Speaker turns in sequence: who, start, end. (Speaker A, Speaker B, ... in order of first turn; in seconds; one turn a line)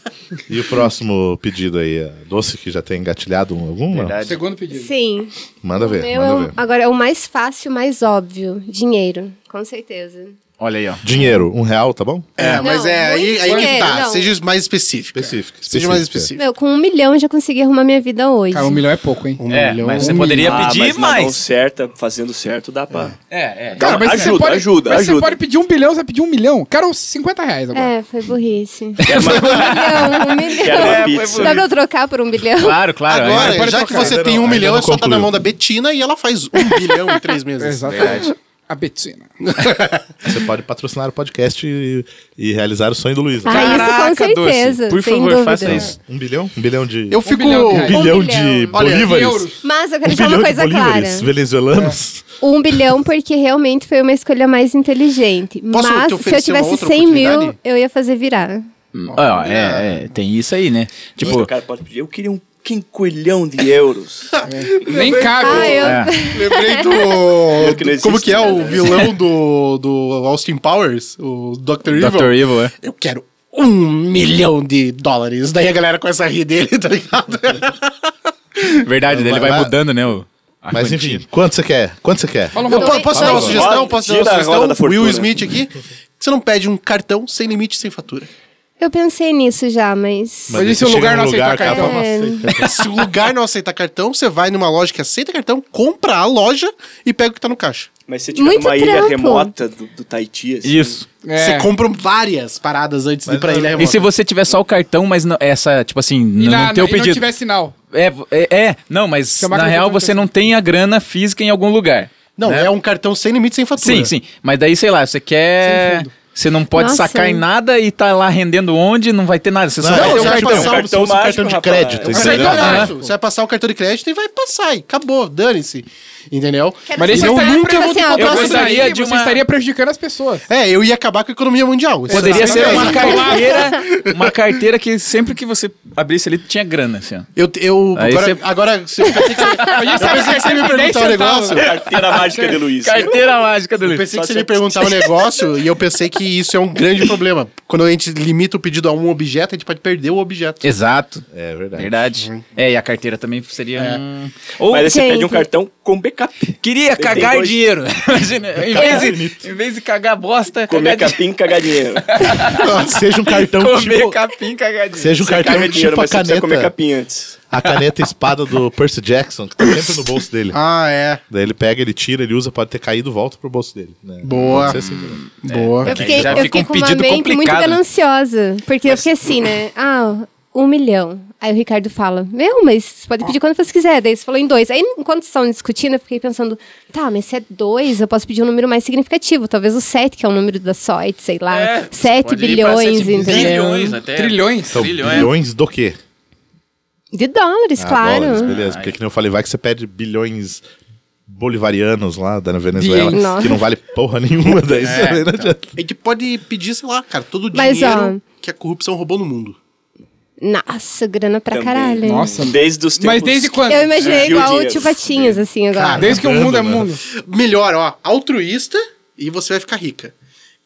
Speaker A: 0.5-4.3
Speaker B: 3.9-4.4
Speaker C: 4.2-4.9
Speaker D: 4.7-10.3
Speaker A: 5.6-6.5
Speaker B: 10.6-11.0
Speaker A: 11.0-12.3
Speaker E: 12.4-16.4
Speaker D: 12.4-14.3
Speaker C: 13.4-13.9
Speaker A: 15.1-16.3
Speaker D: 16.4-18.8
Speaker C: 18.5-19.4
Speaker E: 19.4-20.7
Speaker B: 19.5-21.4
Speaker C: 20.0-20.3
Speaker F: 20.4-23.1
Speaker B: 23.3-24.3
Speaker F: 23.7-25.4
Speaker C: 23.8-27.9
Speaker D: 27.7-32.8
Speaker B: 29.0-31.7
Speaker F: 29.0-31.7
Speaker B: 32.6-33.7
Speaker E: 33.1-38.1
Speaker C: 33.3-34.2
Speaker A: 33.3-35.3
Speaker C: 37.6-39.3
Speaker B: 37.9-38.2
Speaker E: 39.4-40.0
Speaker A: 40.2-43.9
Speaker D: 43.4-45.9
Speaker B: 43.5-45.9
Speaker A: 45.6-49.5
Speaker E: 47.1-48.1
Speaker C: 47.2-48.1
Speaker D: 47.9-48.8
Speaker E: 48.7-49.2
Speaker C: 48.9-49.6
Speaker D: 49.6-51.3
Speaker A: 50.0-52.3
Speaker D: 52.4-58.7
Speaker E: 55.7-57.5
Speaker B: 58.9-61.5
Speaker E: 59.1-59.9
Speaker F: 61.2-64.3
Speaker E: 64.4-78.0
Speaker C: 64.5-65.9
Speaker F: 64.8-65.9
Speaker D: 65.4-67.1
Speaker B: 65.8-66.1
Speaker F: 67.5-69.1
Speaker B: 71.9-72.7
Speaker B: 78.8-81.2
Speaker A: 79.1-79.8
Speaker A: 80.7-83.6
Speaker C: 82.5-83.5
Speaker D: 82.6-83.6
Speaker E: 82.7-88.3
Speaker F: 83.4-85.4
Speaker D: 88.8-90.6
Speaker A: 90.5-92.8
Speaker C: 90.5-92.0
Speaker D: 91.5-92.5
Speaker E: 92.5-97.9
Speaker F: 98.1-101.0
Speaker D: 98.3-99.5
Speaker B: 100.6-101.0
Speaker C: 101.2-101.7
Speaker E: 101.4-104.0
Speaker A: 103.2-104.0
Speaker B: 103.8-107.2
Speaker C: 106.4-107.7
Speaker B: 107.9-112.7
Speaker C: 109.4-110.3
Speaker E: 112.4-114.1
Speaker B: 113.8-120.7
Speaker E: 115.6-116.1
Speaker D: 116.7-117.4
Speaker A: 119.8-122.9
Speaker E: 119.9-121.1
Speaker F: 120.0-122.7
Speaker E: 122.0-128.9
Speaker C: 122.1-123.0
Speaker B: 122.4-122.9
Speaker D: 126.9-128.9
Speaker C: 127.0-130.4
Speaker B: 128.2-129.4
Speaker E: 130.5-134.3
Speaker C: 132.1-133.7
Speaker B: 132.1-137.3
Speaker D: 132.6-133.3
Speaker E: 137.3-141.8
Speaker B: 137.9-138.4
Speaker B: 139.4-139.7
Speaker C: 139.6-142.6
Speaker F: 141.5-143.2
Speaker B: 142.8-144.1
Speaker E: 143.8-150.7
Speaker F: 144.0-145.0
Speaker B: 150.6-151.2
Speaker A: 151.3-151.9
Speaker B: 151.7-154.9
Speaker E: 153.8-154.0
Speaker F: 154.7-157.6
Speaker D: 154.8-155.4
Speaker B: 156.6-161.2
Speaker A: 158.6-159.5
Speaker F: 160.7-162.2
Speaker B: 162.0-165.8
Speaker A: 162.5-164.2
Speaker A: 164.9-166.7
Speaker F: 165.3-167.4
Speaker A: 167.5-170.6
Speaker E: 170.5-171.2
Speaker A: 171.3-175.2
Speaker E: 174.2-174.8
Speaker B: 174.5-177.8
Speaker E: 175.4-175.9
Speaker D: 175.8-194.0
Speaker A: 176.0-176.5
Speaker B: 191.5-195.3
Speaker C: 194.0-194.8
Speaker A: 194.7-196.0
Speaker D: 197.1-198.5
Speaker A: 197.8-200.6
Speaker B: 198.3-198.9
Speaker A: 201.3-205.7
Speaker C: 202.7-203.2
Speaker D: 203.1-203.6
Speaker B: 204.8-205.5
Speaker E: 205.8-209.6
Speaker D: 207.5-208.2
Speaker D: 210.4-212.4
Speaker F: 211.5-215.4
Speaker C: 212.0-214.4
Speaker D: 213.7-216.1
Speaker E: 215.7-216.2
Speaker C: 216.0-217.0
Speaker A: 216.0-216.9
Speaker E: 217.2-220.1